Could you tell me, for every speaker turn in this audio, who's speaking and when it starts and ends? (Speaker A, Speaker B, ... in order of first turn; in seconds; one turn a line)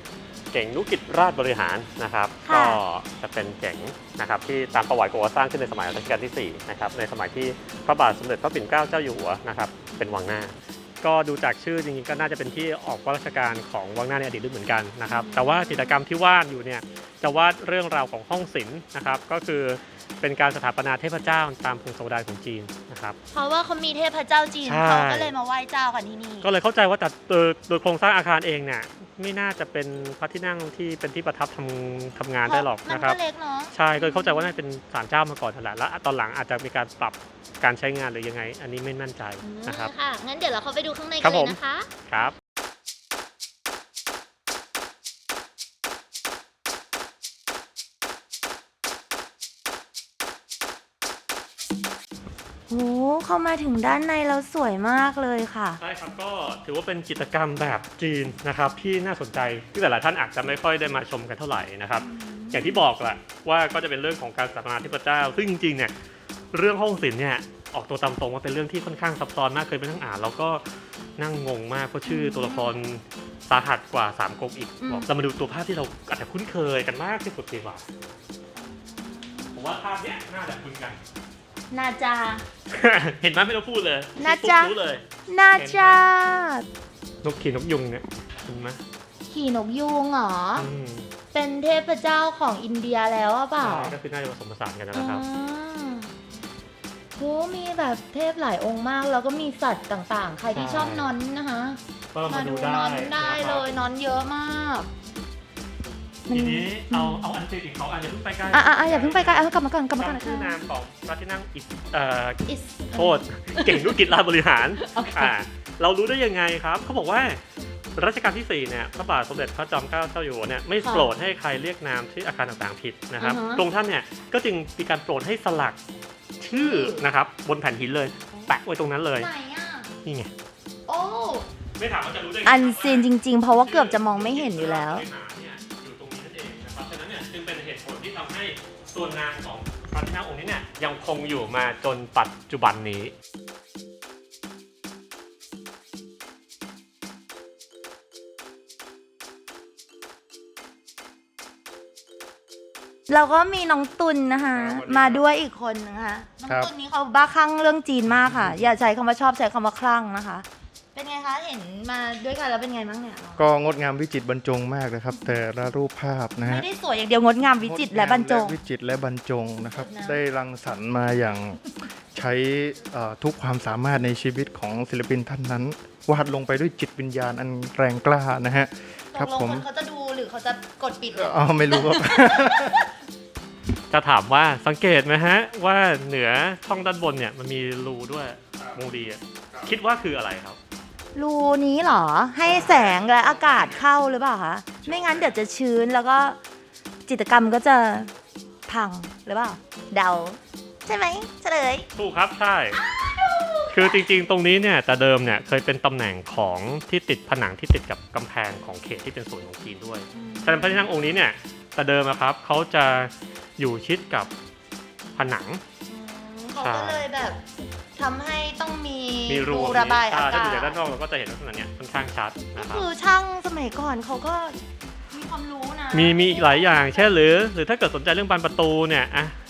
Speaker A: 0.5-23.2
Speaker B: 2.4-2.8
Speaker B: 15.1-16.0
Speaker B: 23.3-26.5
Speaker A: 24.7-25.3
Speaker A: 26.4-33.2
Speaker B: 32.4-34.5
Speaker A: 33.7-39.9
Speaker B: 39.4-41.9
Speaker A: 41.2-42.4
Speaker B: 52.7-55.8
Speaker A: 55.8-65.9
Speaker B: 62.0-62.8
Speaker A: 66.5-70.7
Speaker A: 71.2-77.8
Speaker B: 72.0-72.7
Speaker B: 74.8-75.1
Speaker B: 78.6-79.7
Speaker A: 79.5-81.0
Speaker B: 81.7-82.4
Speaker A: 82.7-86.0
Speaker B: 84.2-84.8
Speaker B: 85.3-86.7
Speaker A: 87.2-88.8
Speaker B: 89.3-90.7
Speaker A: 90.6-91.1
Speaker B: 91.3-93.9
Speaker A: 93.6-95.2
Speaker B: 94.9-96.1
Speaker B: 97.2-104.9
Speaker A: 100.5-101.1
Speaker A: 102.1-103.7
Speaker B: 106.3-107.3
Speaker A: 106.3-117.4
Speaker B: 108.5-110.6
Speaker B: 112.5-113.9
Speaker B: 114.8-115.3
Speaker A: 118.0-125.8
Speaker B: 120.8-121.1
Speaker B: 123.2-123.6
Speaker A: 126.4-129.3
Speaker B: 126.5-127.0
Speaker B: 129.2-129.9
Speaker A: 130.0-130.3
Speaker B: 130.9-131.5
Speaker A: 131.8-143.1
Speaker B: 132.4-135.1
Speaker B: 153.1-163.5
Speaker C: 154.5-155.2
Speaker C: 156.5-156.7
Speaker C: 158.1-158.7
Speaker C: 163.4-166.7
Speaker B: 166.4-168.6
Speaker C: 167.6-179.7
Speaker B: 169.8-170.2
Speaker B: 179.1-182.9
Speaker C: 181.1-182.8
Speaker A: 183.9-190.6
Speaker B: 191.1-196.4
Speaker A: 192.9-193.4
Speaker A: 194.8-195.3
Speaker B: 197.1-198.1
Speaker B: 198.7-201.9
Speaker A: 202.0-202.8
Speaker B: 202.8-204.0
Speaker A: 203.7-214.3
Speaker B: 210.1-211.2
Speaker A: 215.2-215.6
Speaker B: 215.9-217.4
Speaker A: 216.6-217.1
Speaker B: 218.0-220.8
Speaker A: 219.3-222.9
Speaker B: 222.6-224.6
Speaker B: 225.1-227.1
Speaker A: 225.9-229.4